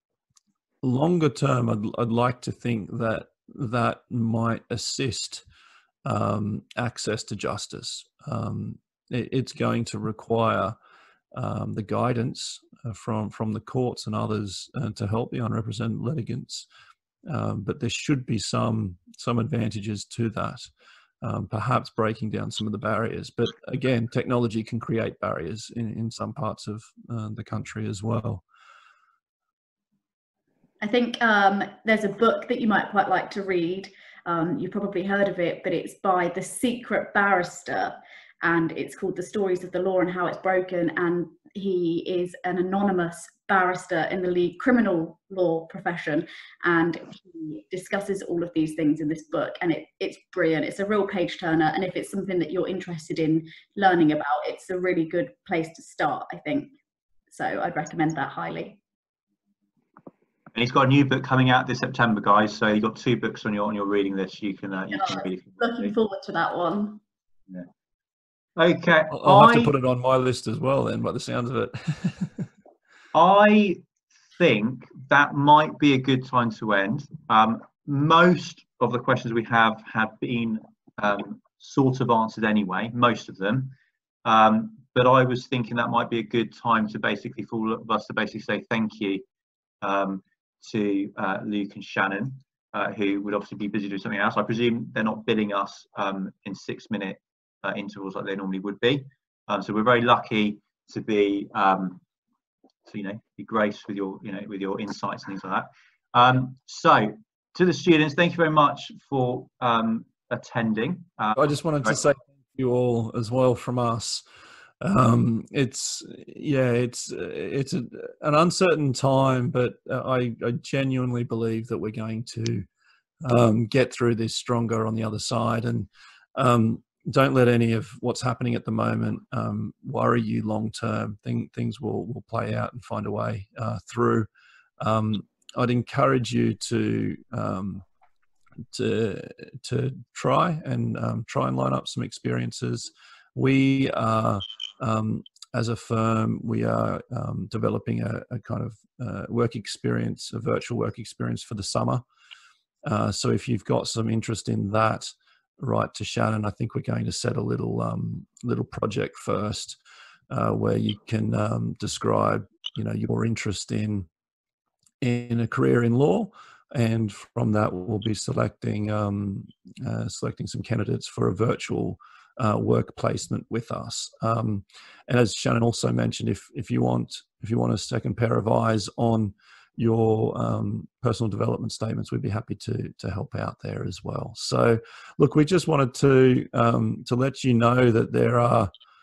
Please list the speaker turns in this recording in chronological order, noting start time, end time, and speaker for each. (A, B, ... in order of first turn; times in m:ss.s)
0:00.8-0:05.4 A
0:06.0-0:10.8 A
0:11.3-0:16.7 A
0:17.3-0:20.7 A
0:21.2-0:28.4 A
0:30.8-0:56.7 B
0:57.3-0:58.8 B
1:00.5-1:06.0 C
1:04.9-1:07.0 B
1:08.6-1:09.7 C
1:09.1-1:12.5 A
1:13.1-1:29.2 C
1:29.8-1:42.0 C
1:42.9-1:52.0 C
1:51.4-1:54.2 A
1:54.8-2:02.7 A
2:03.2-2:14.3 A
2:14.8-2:17.8 A
2:18.7-2:32.0 A
2:32.8-2:39.8 A
2:40.3-2:44.1 A
2:45.0-3:08.7 A